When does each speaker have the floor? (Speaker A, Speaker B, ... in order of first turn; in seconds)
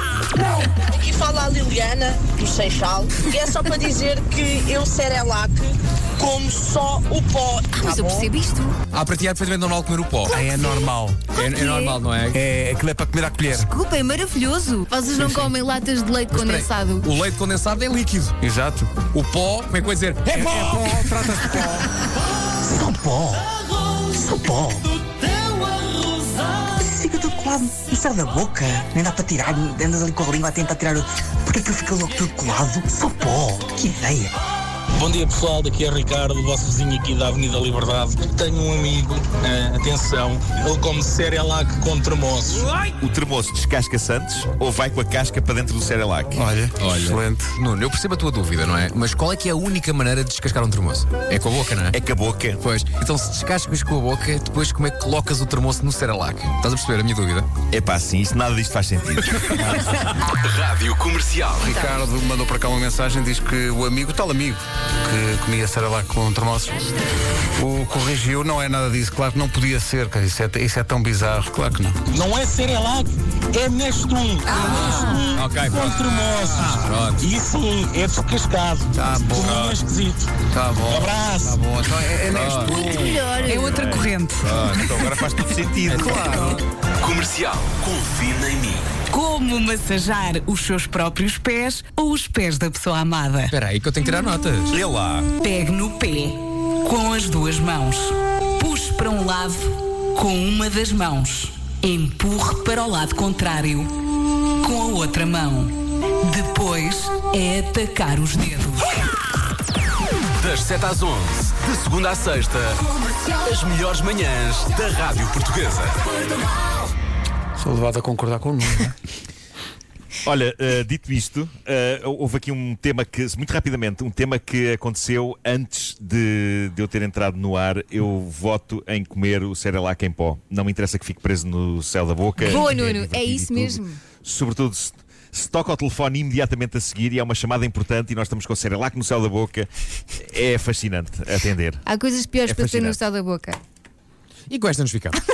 Speaker A: 0.7-8.3
Speaker B: 7.7-8.8, 11.4-12.0, 13.5-17.1, 82.7-83.9, 132.4-134.0, 141.8-143.6
Speaker C: 8.9-10.3, 11.3-12.4, 15.2-15.5, 16.3-18.4, 19.1-20.4, 46.8-52.0, 52.6-57.5, 74.6-75.9, 76.4-77.2, 82.3-82.8, 85.9-86.4, 93.5-94.8, 144.5-145.2
Speaker D: 10.3-11.2, 12.3-13.7, 18.4-19.0, 20.3-21.9, 46.3-47.5, 61.6-66.8, 67.5-72.0, 74.6-74.9, 78.9-79.8, 80.5-83.3, 85.8-86.6, 117.6-119.0
Speaker E: 22.6-23.4, 24.1-24.8, 26.8-34.3
Speaker F: 35.0-42.8, 72.1-80.3, 80.8-81.6
Speaker G: 43.0-46.4, 51.9-52.6, 57.7-59.8, 83.6-86.6, 94.7-95.3, 120.2-141.8, 142.4-143.0
Speaker H: 60.5-61.6, 87.0-88.8, 110.4-112.8, 113.4-115.9
Speaker I: 83.4-85.0, 89.1-93.5, 95.4-103.9, 104.6-108.9